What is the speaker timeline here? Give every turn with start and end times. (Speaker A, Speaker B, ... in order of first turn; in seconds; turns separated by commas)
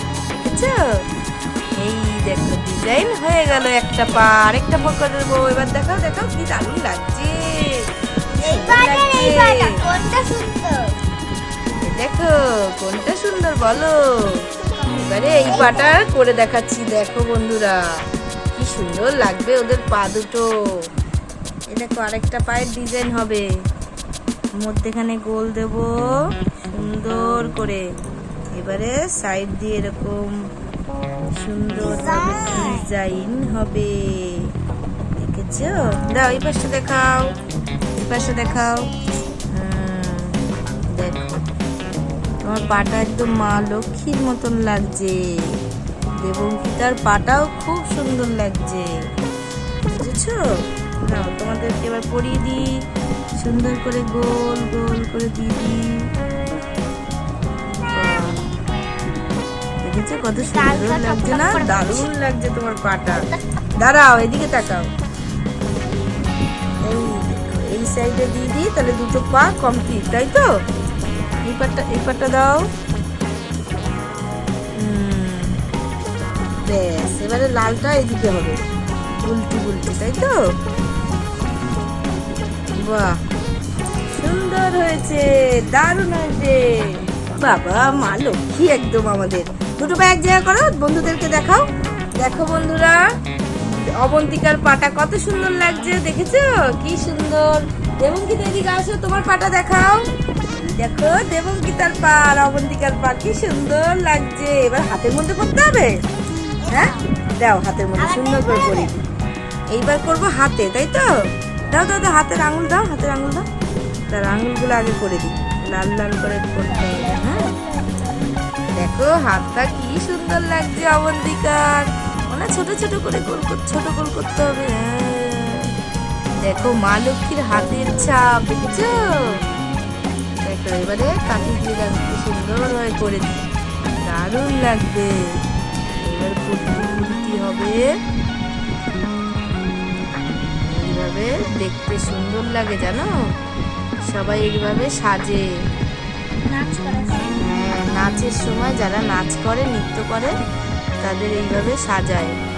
Speaker A: 0.3-0.8, Speaker A: 1.8-7.9, Speaker B: 8.4-10.8, Speaker A: 8.4-9.7, Speaker A: 11.8-14.4, Speaker B: 14.7-16.1, Speaker A: 15.0-17.7, Speaker A: 18.5-20.4, Speaker A: 21.7-23.4, Speaker A: 24.6-26.1, Speaker A: 26.7-27.8, Speaker A: 28.5-30.2, Speaker A: 31.3-34.5, Speaker B: 31.8-32.9, Speaker A: 35.2-37.3, Speaker A: 38.0-38.9, Speaker B: 38.1-39.4, Speaker A: 39.5-40.4, Speaker A: 40.9-41.4, Speaker A: 42.4-45.6, Speaker A: 46.2-48.9, Speaker A: 50.0-50.4, Speaker A: 51.0-52.6, Speaker A: 53.4-55.9, Speaker A: 57.8-58.4, Speaker B: 57.8-59.2, Speaker A: 59.8-63.2, Speaker B: 60.3-62.1, Speaker B: 63.1-63.4, Speaker A: 63.8-64.9, Speaker A: 66.8-70.5, Speaker A: 71.5-72.7, Speaker A: 74.8-75.6, Speaker A: 76.6-78.6, Speaker A: 79.2-80.3, Speaker A: 82.8-83.2, Speaker A: 84.1-91.6, Speaker A: 92.2-93.0, Speaker A: 93.6-100.0, Speaker A: 100.5-105.9, Speaker B: 106.6-107.0, Speaker A: 106.7-108.9, Speaker B: 108.0-108.9, Speaker A: 109.7-111.1, Speaker A: 111.7-113.5, Speaker A: 114.1-117.5, Speaker B: 116.7-118.4, Speaker A: 118.7-125.7, Speaker A: 126.4-128.9, Speaker A: 130.4-133.5, Speaker A: 134.0-135.1, Speaker A: 136.0-137.8, Speaker A: 140.7-143.1, Speaker A: 144.1-145.4, Speaker B: 146.5-147.5, Speaker A: 147.4-150.3, Speaker A: 151.0-152.4